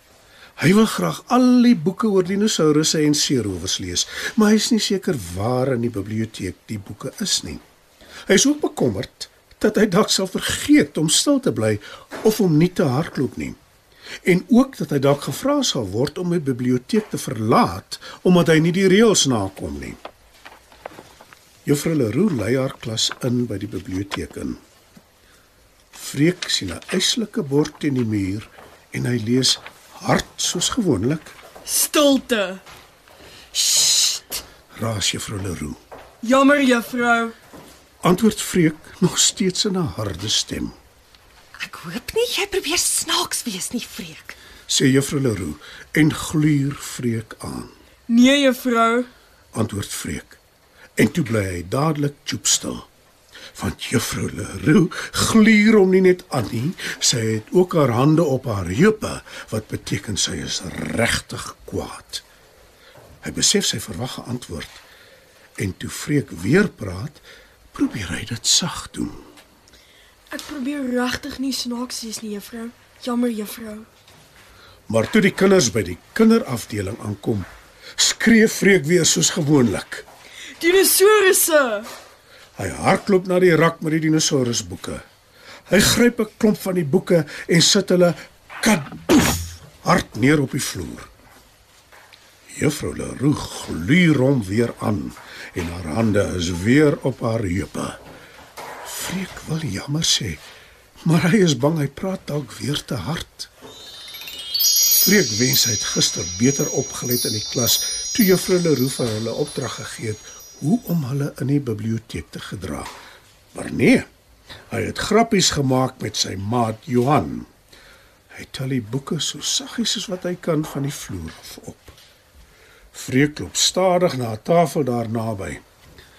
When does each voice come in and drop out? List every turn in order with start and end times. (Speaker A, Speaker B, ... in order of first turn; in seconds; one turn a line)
Speaker A: 0.6-7.6
Speaker A: 8.3-13.6
Speaker A: 14.2-20.0
Speaker A: 21.6-24.6
Speaker A: 25.9-31.3
Speaker B: 31.6-32.6
Speaker B: 33.5-34.4
Speaker A: 34.7-35.8
Speaker B: 36.2-37.3
Speaker A: 38.0-40.8
Speaker C: 41.6-44.3
Speaker A: 44.7-47.7
Speaker B: 48.1-49.1
Speaker A: 49.5-50.4
Speaker A: 51.0-52.9
Speaker A: 53.5-62.2
Speaker A: 63.2-64.8
Speaker A: 65.6-69.2
Speaker B: 70.3-73.9
Speaker A: 74.9-77.5
Speaker A: 78.0-80.0
Speaker B: 80.6-81.9
Speaker A: 82.6-85.0
Speaker A: 85.7-91.1
Speaker A: 92.5-98.0
Speaker A: 98.8-100.4
Speaker A: 101.0-103.5
Speaker A: 104.9-112.9
Speaker A: 113.5-114.1
Speaker A: 114.7-117.5
Speaker A: 118.3-122.0
Speaker A: 122.9-125.6